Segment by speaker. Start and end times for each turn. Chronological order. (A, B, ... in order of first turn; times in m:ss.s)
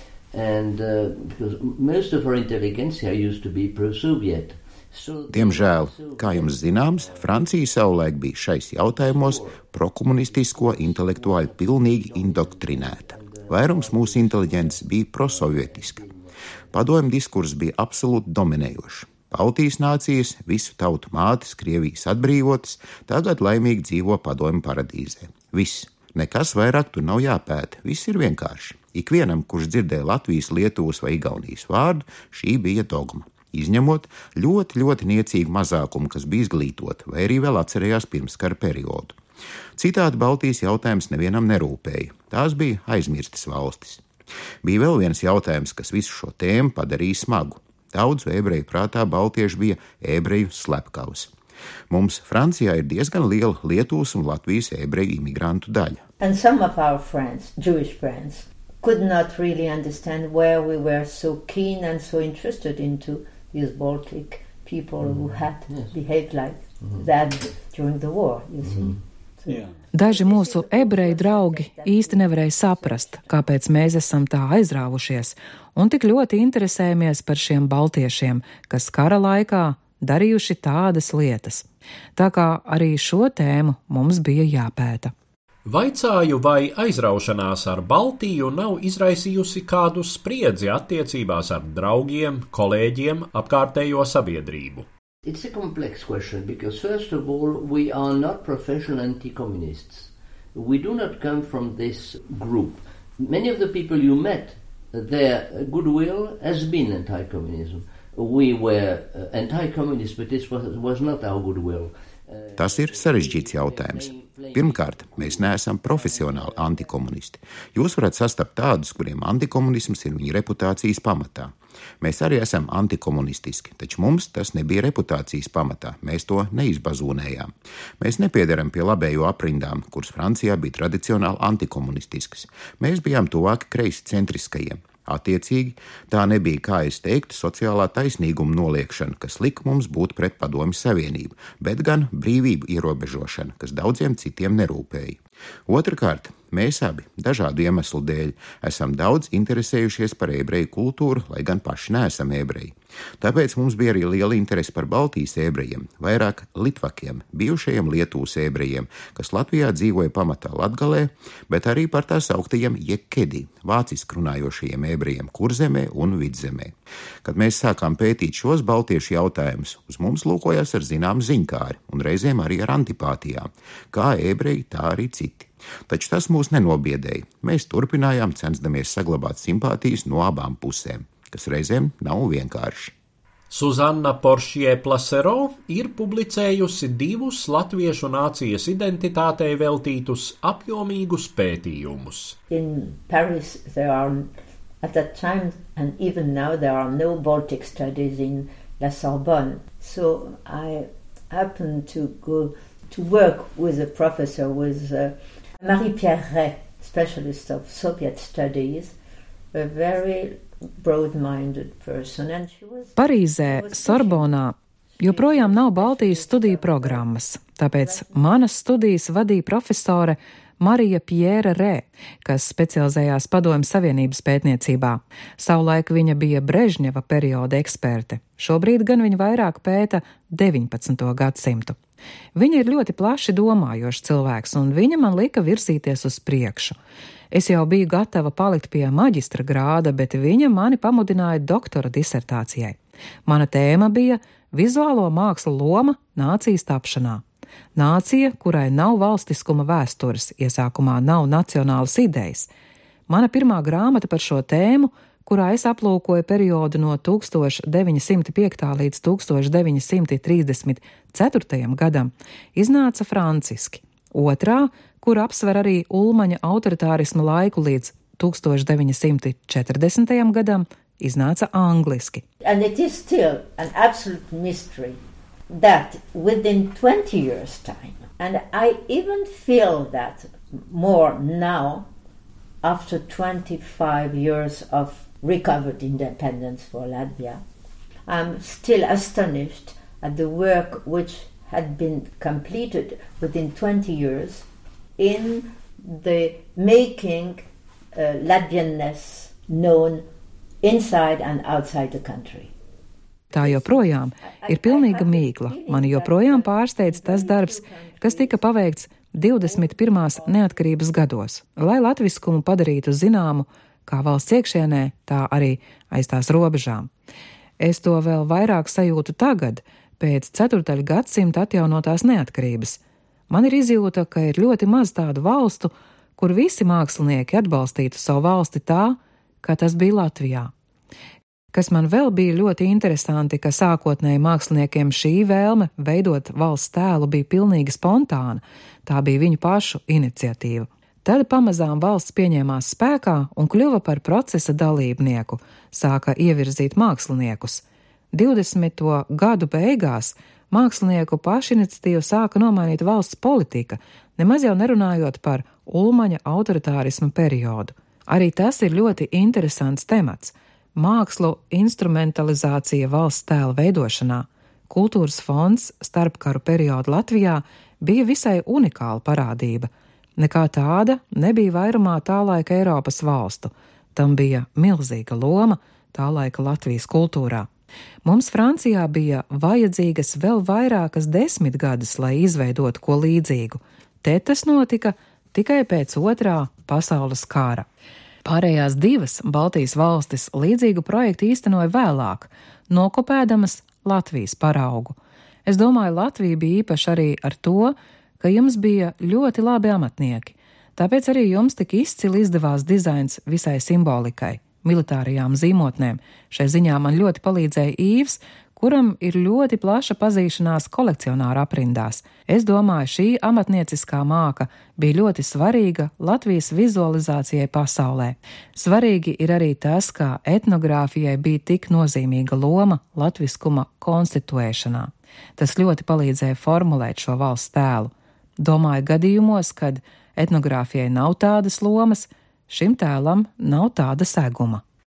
0:00.3-0:08.0 A
0:05.3-0:16.0 B
0:08.8-0:09.6 A
0:10.1-0:16.9 A
0:16.7-0:39.2 B
0:39.8-0:44.0 B
0:44.6-0:51.3 B
0:51.9-0:56.0 B
0:56.2-1:13.6 C
1:05.0-1:05.9 A
1:06.8-1:07.1 A
1:08.6-1:09.0 A
1:09.9-1:21.6 D
1:22.2-1:25.1 D
1:25.6-1:34.9 E
1:35.2-1:57.0 A
1:52.6-3:02.9 B
3:03.5-3:12.4 E
3:12.5-3:14.3 C
3:14.8-3:28.9 C
3:29.5-3:34.3 C
3:33.0-3:51.8 D
3:35.0-3:37.1 C
3:37.7-3:38.3 C
3:52.4-3:56.8 D
3:57.3-4:07.2 D
4:07.8-4:12.5 D
4:13.1-4:32.2 D
4:32.4-4:41.9 C
4:42.6-4:47.4 C
4:48.1-4:54.4 C
4:55.0-4:57.4 C
4:57.9-5:00.0 C
5:00.6-5:02.5 C
5:03.3-5:08.6 C
5:03.3-5:16.9 D
5:09.3-5:10.6 C
5:17.6-5:30.5 D
5:31.5-6:17.5 D
6:18.0-6:27.7 D
6:28.2-6:34.9 D
6:35.4-7:14.6 D